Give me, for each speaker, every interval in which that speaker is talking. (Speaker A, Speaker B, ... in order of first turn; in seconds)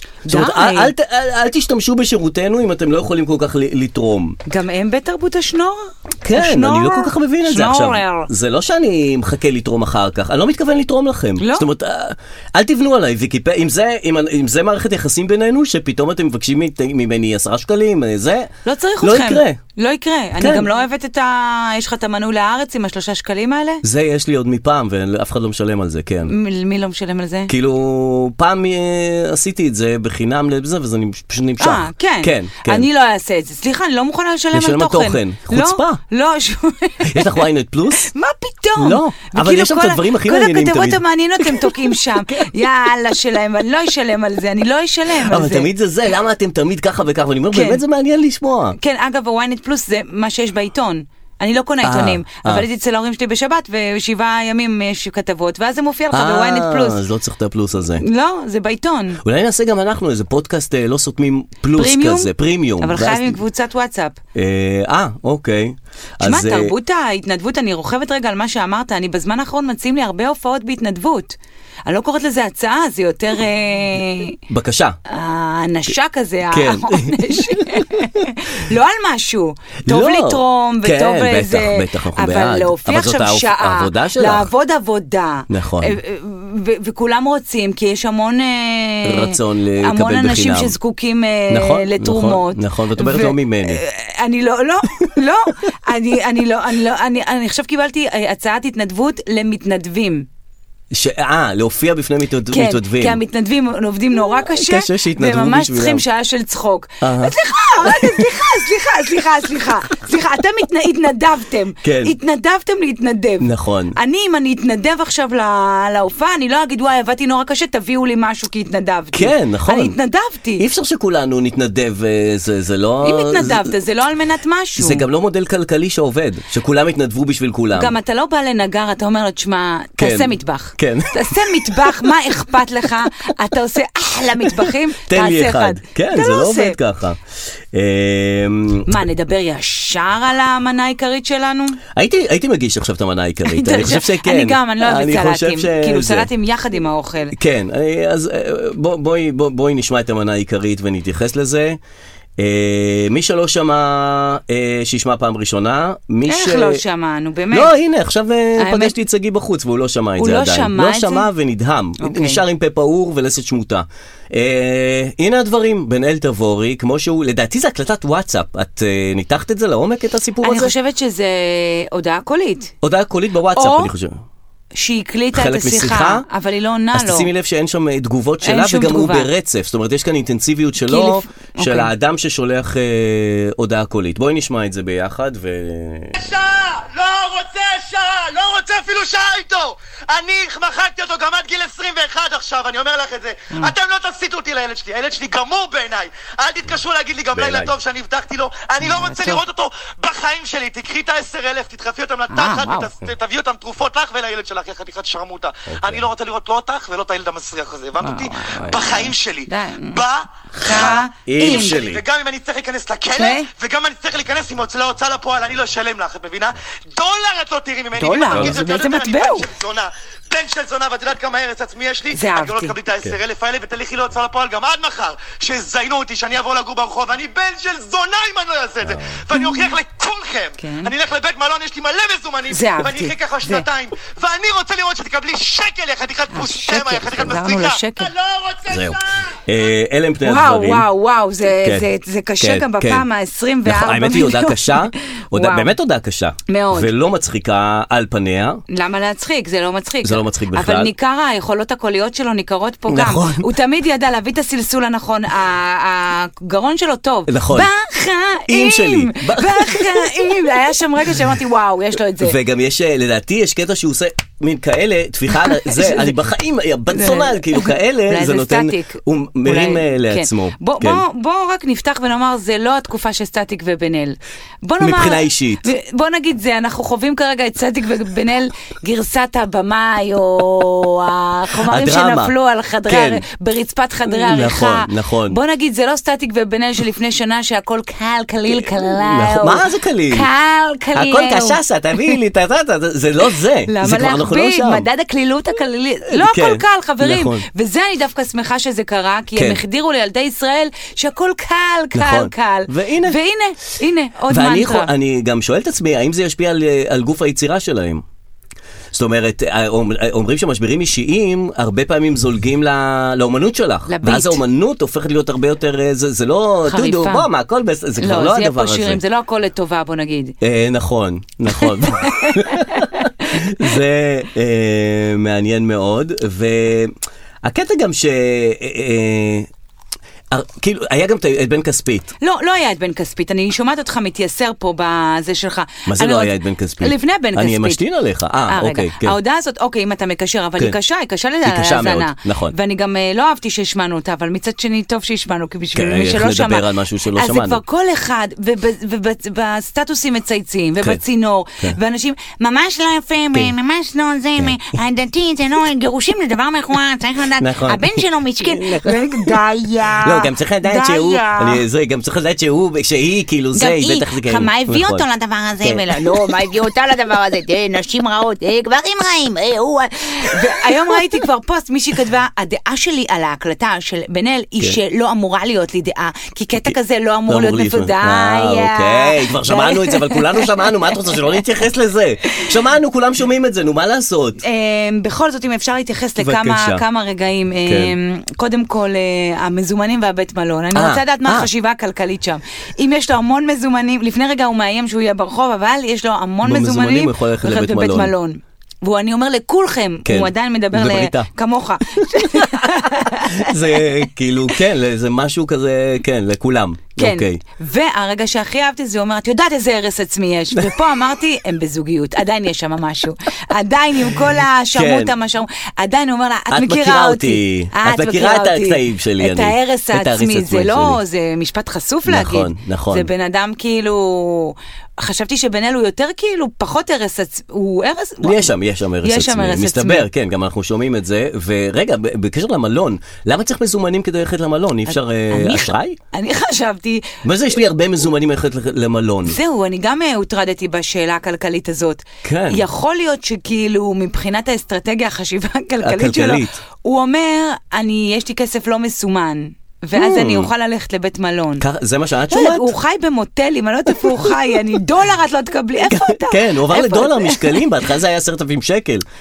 Speaker A: 0.2-0.9, 4.5-8.3, 11.4-11.7, 18.6-23.8, 26.3-27.5, 31.6-45.7, 47.5-47.8, 48.8-57.0, 58.0-59.2, 61.7-64.2, 66.2-74.4, 75.1-100.3, 102.5-120.7, 123.0-125.0, 127.7-136.8, 138.8-141.8, 143.4-147.3, 156.2-157.7, 158.6-158.9, 160.2-161.3, 162.0-162.4, 170.4-172.7, 173.5-173.9, 174.7-177.3, 178.4-179.3, 180.8-181.9, 198.8-199.4, 202.3-202.9, 208.0-210.0, 210.5-211.8, 213.2-213.5, 218.0-219.5, 222.1-222.8, 229.3-229.7, 230.6-230.9, 232.5-233.7, 236.3-238.1, 240.2-245.7, 246.5-246.9, 248.7-262.4, 265.5-266.1, 266.9-292.1, 293.6-304.9, 313.9-314.4, 316.6-317.3, 318.0-320.4, 321.6-323.3, 332.2-337.8, 338.5-361.6, 363.5-380.9, 384.4-403.6, 406.9-430.1, 434.9-437.1, 439.2-451.6, 452.3-457.6
Speaker B: 0.3-4.4, 6.2-19.6, 20.4-20.7, 23.8-26.3, 27.5-32.9, 34.5-36.0, 37.0-38.1, 38.8-42.5, 45.1-48.8, 51.8-52.6, 56.1-58.0, 59.2-63.4, 64.3-66.7, 74.5-75.0, 76.5-78.1, 79.9-84.5, 85.5-86.0, 89.0-90.8, 91.5-93.8, 100.9-103.2, 104.3-106.0, 107.0-108.3, 111.8-112.1, 113.4-113.9, 119.1-120.0, 120.6-123.7, 124.8-127.9, 130.0-132.1, 134.5-137.2, 137.7-139.0, 141.9-146.3, 147.3-151.8, 152.4-156.8, 157.5-170.7, 172.8-174.2, 175.3-176.2, 176.9-186.3, 197.3-197.7, 205.7-206.0, 210.8-212.0, 218.3-218.6, 228.8-229.2, 238.7-240.9, 241.6-241.9, 242.4-243.1, 243.6-248.6, 250.0-250.9, 252.9-253.5, 257.3-257.7, 258.5-260.4, 262.1-271.0, 274.8-275.7, 281.6-282.3, 282.9-283.2, 284.1-285.4, 288.5-290.3, 290.9-294.9, 296.1-297.4, 299.4-299.6, 301.9-303.2, 304.3-308.0, 308.9-319.0, 320.4-329.5, 330.3-332.1, 335.9-339.2, 341.4-342.5, 345.7-347.6, 357.4-359.4, 360.0-365.0, 365.6-366.3, 377.3-384.4, 386.2-386.8, 387.6-387.9, 390.7-391.5, 396.4-398.1, 400.0-401.3, 401.9-407.4, 414.7-415.1, 416.5-421.0, 422.1-423.1, 428.2-436.0, 437.2-439.4, 442.2-442.6, 445.8-446.6, 449.9-450.5, 451.6-452.7, 453.9-454.6, 455.8-459.0
Speaker C: 186.1-239.4